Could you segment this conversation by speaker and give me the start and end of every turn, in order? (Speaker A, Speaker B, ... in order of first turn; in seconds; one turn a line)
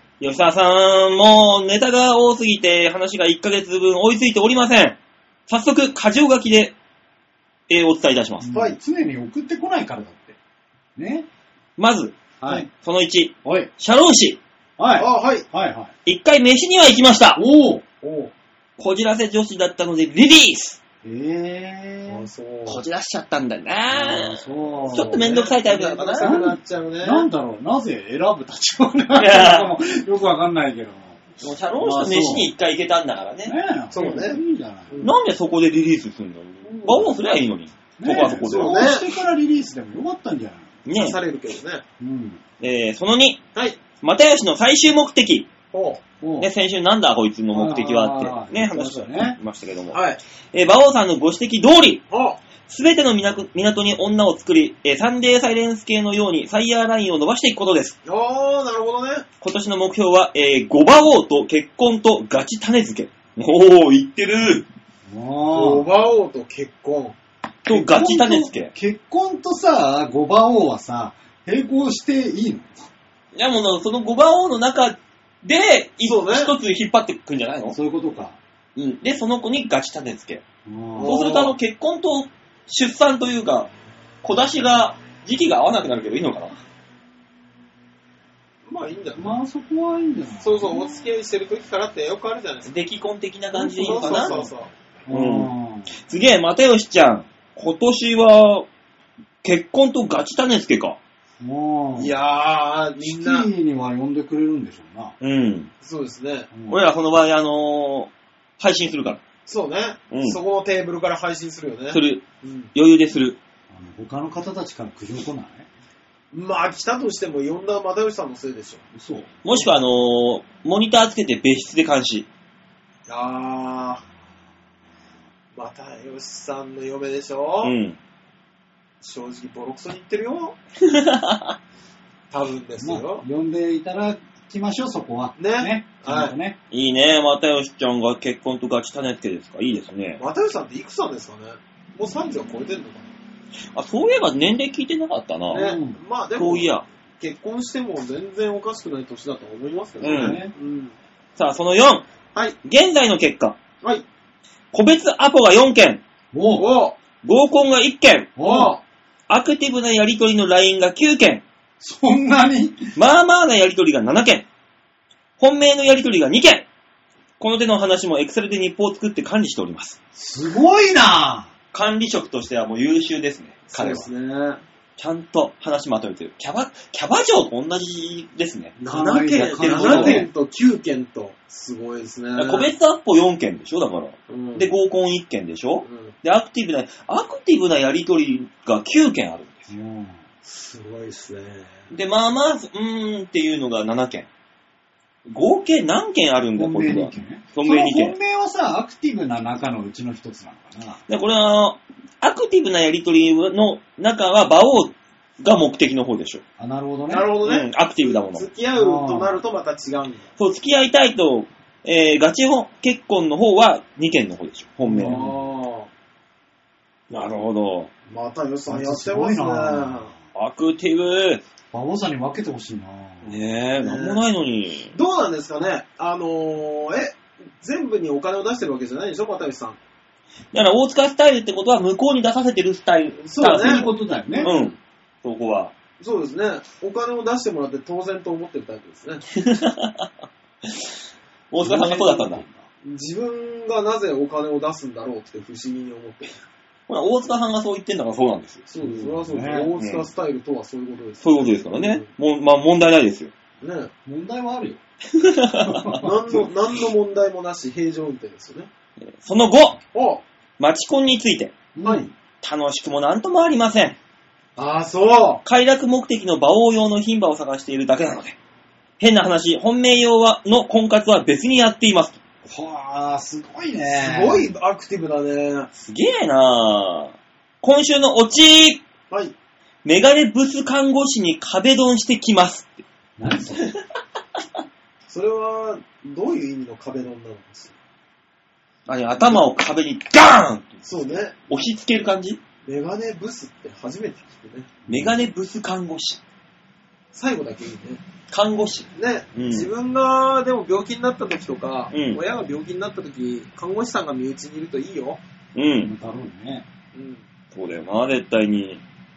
Speaker A: 0.2-6.7
Speaker A: 7.7-8.5
Speaker B: 8.4-10.4
Speaker C: 8.5-8.8
Speaker B: 10.9-11.3
Speaker A: 11.8-14.4
Speaker B: 12.4-12.7
Speaker B: 13.4-13.7
Speaker B: 14.8-15.9
Speaker C: 15.0-15.4
Speaker A: 16.1-17.4
Speaker B: 17.4-17.8
Speaker C: 18.0-18.3
Speaker A: 18.8-20.8
Speaker B: 21.0-22.3
Speaker C: 22.1-22.8
Speaker A: 22.6-26.4
Speaker B: 23.9-25.3
Speaker C: 24.9-27.3
Speaker B: 26.2-31.2
Speaker A: 29.1-29.7
Speaker A: 31.4-34.0
Speaker B: 31.8-32.5
Speaker B: 33.5-35.0
Speaker C: 33.9-35.1
Speaker A: 35.0-38.8
Speaker B: 36.6-37.1
Speaker B: 38.0-40.8
Speaker C: 38.4-39.1
Speaker A: 40.9-41.2
Speaker C: 40.9-41.8
Speaker B: 42.0-42.4
Speaker A: 42.6-43.4
Speaker A: 44.0-45.5
Speaker C: 45.7-46.0
Speaker B: 46.2-46.5
Speaker A: 46.4-52.0
Speaker B: 47.5-49.4
Speaker C: 49.9-50.2
Speaker C: 52.1-52.4
Speaker A: 52.6-58.0
Speaker C: 58.0-59.2
Speaker A: 59.4-64.7
Speaker B: 65.1-65.9
Speaker C: 65.5-67.2
Speaker A: 67.6-68.7
Speaker B: 67.7-72.9
Speaker A: 73.3-77.8
Speaker C: 76.0-76.5
Speaker B: 77.7-78.4
Speaker A: 78.8-80.4
Speaker B: 80.6-81.4
Speaker C: 80.9-81.5
Speaker A: 81.0-83.7
Speaker A: 84.2-86.5
Speaker C: 88.7-89.4
Speaker B: 89.2-91.1
Speaker C: 90.4-92.7
Speaker A: 92.6-94.4
Speaker C: 93.6-94.7
Speaker B: 93.6-94.5
Speaker B: 95.1-95.9
Speaker A: 95.1-98.7
Speaker A: 99.4-101.0
Speaker B: 101.4-102.1
Speaker C: 102.0-103.5
Speaker B: 103.0-105.1
Speaker A: 105.2-105.7
Speaker C: 105.8-106.5
Speaker B: 106.5-106.8
Speaker A: 106.7-109.2
Speaker C: 109.5-112.7
Speaker A: 110.1-110.4
Speaker A: 111.9-113.4
Speaker B: 113.7-115.7
Speaker C: 116.3-118.8
Speaker B: 118.9-119.3
Speaker A: 119.4-122.3
Speaker C: 123.1-124.0
Speaker C: 125.5-127.7
Speaker A: 127.6-128.0
Speaker C: 129.0-130.6
Speaker A: 130.8-131.6
Speaker C: 132.3-133.2
Speaker B: 132.8-136.6
Speaker C: 135.4-136.3
Speaker A: 136.7-140.2
Speaker C: 140.2-143.1
Speaker A: 143.7-145.7
Speaker C: 145.5-150.9
Speaker B: 145.5-146.0
Speaker A: 146.3-146.8
Speaker B: 150.0-150.5
Speaker A: 150.0-150.4
Speaker A: 151.4-152.0
Speaker A: 152.6-153.6
Speaker A: 154.7-156.0
Speaker B: 156.3-156.7
Speaker C: 156.5-157.0
Speaker A: 157.2-158.3
Speaker B: 158.3-158.7
Speaker C: 158.4-158.8
Speaker A: 159.3-161.4
Speaker B: 161.8-162.9
Speaker A: 162.9-164.4
Speaker A: 165.4-166.7
Speaker A: 167.4-170.0
Speaker B: 170.1-171.5
Speaker A: 171.7-174.1
Speaker C: 173.7-174.6
Speaker A: 175.0-178.8
Speaker C: 178.8-182.7
Speaker B: 178.9-180.3
Speaker A: 179.3-180.2
Speaker A: 182.3-189.7
Speaker C: 184.3-184.7
Speaker C: 185.8-186.1
Speaker B: 189.7-190.2
Speaker C: 190.4-191.9
Speaker A: 191.9-194.3
Speaker A: 195.2-198.2
Speaker B: 196.6-201.0
Speaker A: 201.1-206.4
Speaker B: 206.6-207.3
Speaker C: 207.1-210.2
Speaker A: 207.4-208.5
Speaker B: 208.7-209.4
Speaker A: 210.4-215.2
Speaker B: 214.9-215.5
Speaker C: 215.0-215.9
Speaker A: 217.1-217.9
Speaker C: 218.1-220.1
Speaker B: 218.7-220.2
Speaker A: 220.3-221.4
Speaker B: 221.7-223.4
Speaker A: 223.2-224.9
Speaker C: 223.8-224.2
Speaker C: 224.9-229.8
Speaker A: 230.5-233.9
Speaker C: 233.2-234.8
Speaker B: 233.4-234.5
Speaker A: 234.4-235.7
Speaker C: 236.0-239.2
Speaker A: 239.3-240.1
Speaker A: 240.6-240.9
Speaker A: 241.5-242.4
Speaker B: 241.6-242.7
Speaker C: 242.8-246.3
Speaker A: 246.9-248.6
Speaker C: 248.7-252.1
Speaker B: 248.8-249.8
Speaker A: 249.8-250.1
Speaker A: 251.2-253.3
Speaker C: 253.6-253.9
Speaker B: 254.0-254.8
Speaker A: 255.1-256.4
Speaker B: 255.6-256.5
Speaker C: 256.0-258.7
Speaker A: 259.0-259.8
Speaker C: 259.9-260.2
Speaker A: 260.6-261.5
Speaker B: 261.7-262.1
Speaker A: 262.4-264.0
Speaker C: 264.6-265.4
Speaker A: 265.4-268.4
Speaker A: 269.0-272.2
Speaker B: 272.4-274.5
Speaker C: 273.9-275.7
Speaker A: 275.7-278.8
Speaker A: 279.8-282.8
Speaker B: 283.2-283.7
Speaker C: 285.1-287.7
Speaker A: 288.9-290.8
Speaker C: 289.1-289.4
Speaker C: 290.8-291.3
Speaker A: 291.5-292.4
Speaker C: 292.6-294.7
Speaker B: 294.9-295.1
Speaker A: 294.9-296.2
Speaker C: 297.1-298.0
Speaker A: 298.3-299.7
Speaker C: 298.9-305.2
Speaker A: 301.9-302.2
Speaker A: 305.5-305.9
Speaker B: 305.8-306.6
Speaker C: 306.9-307.2
Speaker A: 307.5-308.8